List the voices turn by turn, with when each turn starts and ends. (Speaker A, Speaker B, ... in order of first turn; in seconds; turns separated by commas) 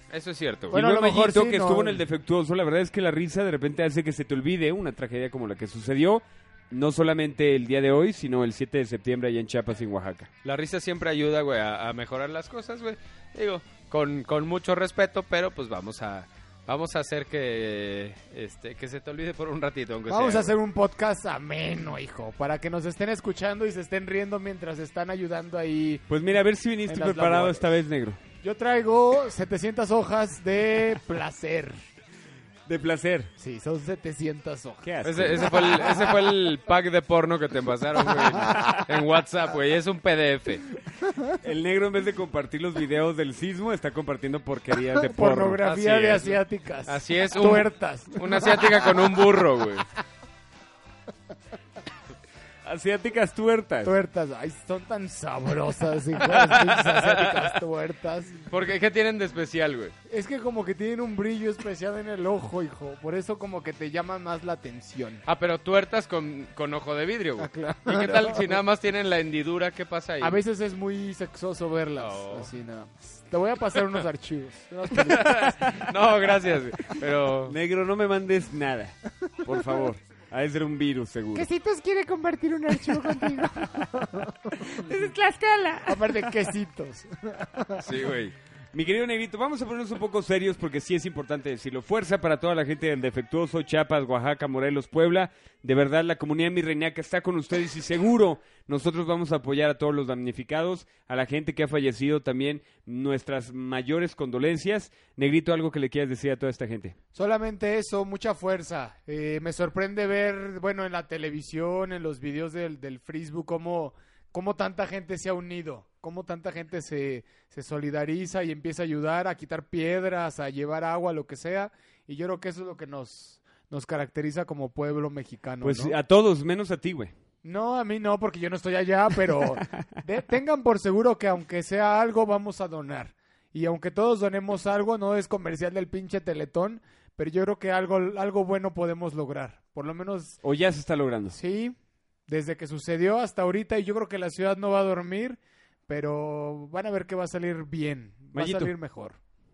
Speaker A: 0.1-0.8, Speaker B: 0.7-10.3, Speaker C: 0.7-2.0, Speaker A: 10.4-20.5, Speaker C: 20.1-26.0, Speaker B: 26.1-28.2, Speaker C: 26.9-27.7, Speaker C: 28.4-31.8, Speaker B: 32.7-33.3, Speaker C: 33.4-34.9, Speaker B: 34.8-35.9, Speaker A: 35.0-40.7, Speaker B: 41.4-46.2, Speaker C: 45.0-49.0, Speaker A: 45.6-49.9, Speaker B: 52.6-53.9, Speaker C: 53.8-58.4, Speaker A: 56.2-57.5, Speaker A: 58.5-59.9, Speaker C: 60.1-65.2, Speaker A: 65.3-70.4, Speaker C: 67.4-68.5, Speaker C: 70.2-75.9, Speaker A: 72.0-72.5, Speaker A: 75.0-77.5, Speaker B: 77.5-81.5, Speaker C: 81.3-84.6, Speaker B: 82.9-83.5, Speaker B: 84.7-86.2, Speaker C: 85.8-87.9, Speaker A: 87.8-88.3, Speaker B: 88.7-107.0, Speaker C: 107.2-126.0, Speaker B: 125.6-127.1, Speaker C: 127.4-140.4, Speaker B: 140.4-141.4, Speaker C: 141.3-141.8, Speaker C: 142.3-149.2, Speaker B: 148.3-148.7